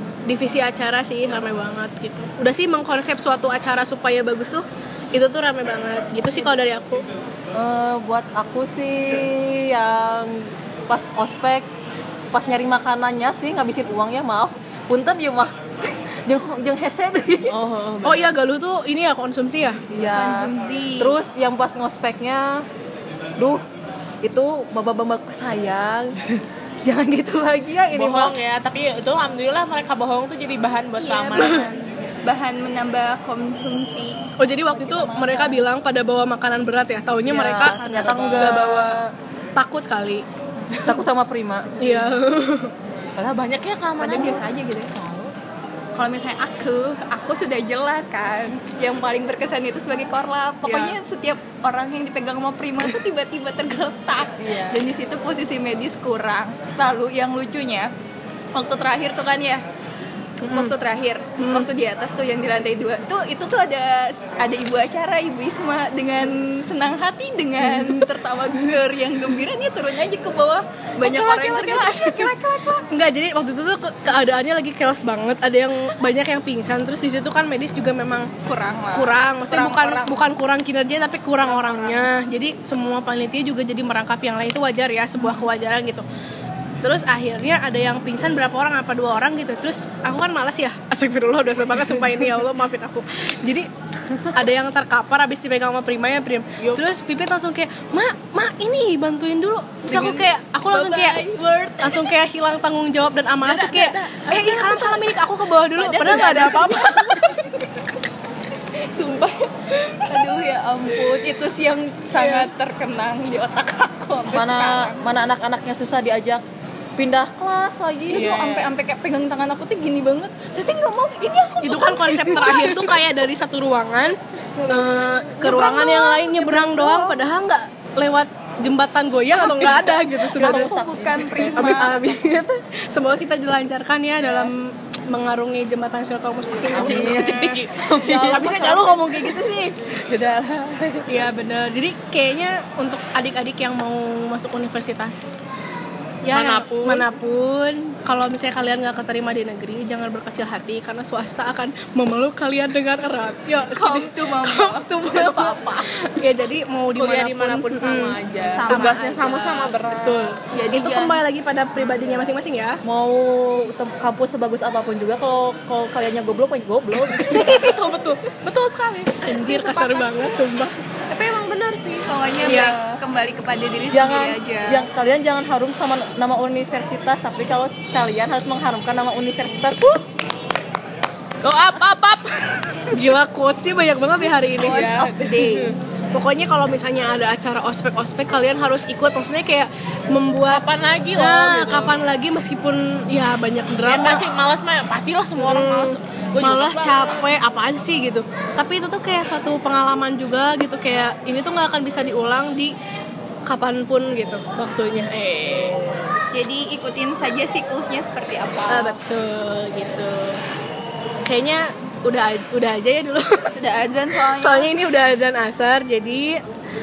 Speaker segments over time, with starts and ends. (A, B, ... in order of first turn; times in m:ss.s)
0:00.3-0:07.0 A
0:07.5-0:11.7 B
0:12.3-0:17.6 B
0:17.5-0:18.3 C
0:18.0-0:19.8 A
0:19.9-0:22.7 B
0:20.1-0:21.2 D
0:23.4-0:23.6 B
0:24.2-0:26.2 B
0:26.8-0:28.3 B
0:27.9-0:31.7 C
0:31.0-0:34.2 D
0:34.4-0:40.2 A
0:34.7-0:35.6 D
0:37.3-0:39.0 B
0:37.7-0:39.0 C
0:40.8-0:42.0 B
0:41.8-0:42.7 A
0:43.2-0:44.4 C
0:44.0-0:45.0 D
0:46.0-0:57.9 D
0:50.6-0:51.0 A
0:54.4-0:54.8 B
0:58.5-0:59.6 D
1:00.4-1:00.7 A
1:00.5-1:12.8 D
1:01.4-1:01.7 A
1:11.0-1:12.3 C
1:12.9-1:18.3 A
1:18.4-1:20.1 D
1:18.9-1:26.0 A
1:21.4-1:22.1 C
1:26.8-1:33.7 A
1:34.3-1:41.3 A
1:36.6-1:36.8 C
1:39.9-1:42.1 D
1:41.8-1:47.3 A
1:43.4-1:47.8 D
1:48.9-1:55.0 D
1:52.2-1:52.5 A
1:54.3-1:56.4 B
1:57.0-1:58.4 B
1:58.1-2:02.9 D
1:58.1-1:58.7 C
2:01.6-2:04.2 A
2:04.6-2:07.3 D
2:04.7-2:10.8 A
2:09.6-2:12.1 D
2:10.3-2:12.0 B
2:11.5-2:19.7 A
2:16.7-2:19.4 C
2:16.8-2:18.2 B
2:20.1-2:21.1 C
2:21.1-2:25.4 A
2:26.2-2:39.0 A
2:26.3-2:27.1 C
2:33.7-2:35.9 D
2:37.0-2:40.3 C
2:38.4-2:39.8 D
2:39.9-2:42.8 A
2:40.5-2:41.2 D
2:42.8-2:47.6 B
2:47.2-2:50.1 C
2:49.2-2:50.7 A
2:51.1-2:52.1 C
2:52.0-2:54.9 D
2:52.4-2:52.8 A
2:53.9-2:59.9 B
3:01.4-3:02.9 C
3:02.9-3:04.8 A
3:04.5-3:05.8 D
3:04.6-3:05.1 C
3:06.1-3:14.3 A
3:10.5-3:12.1 C
3:13.9-3:17.2 C
3:15.4-3:22.8 A
3:23.5-3:26.2 A
3:26.3-3:29.0 D
3:28.7-3:30.4 A
3:31.3-3:33.5 A
3:33.5-3:34.7 D
3:34.3-3:36.4 A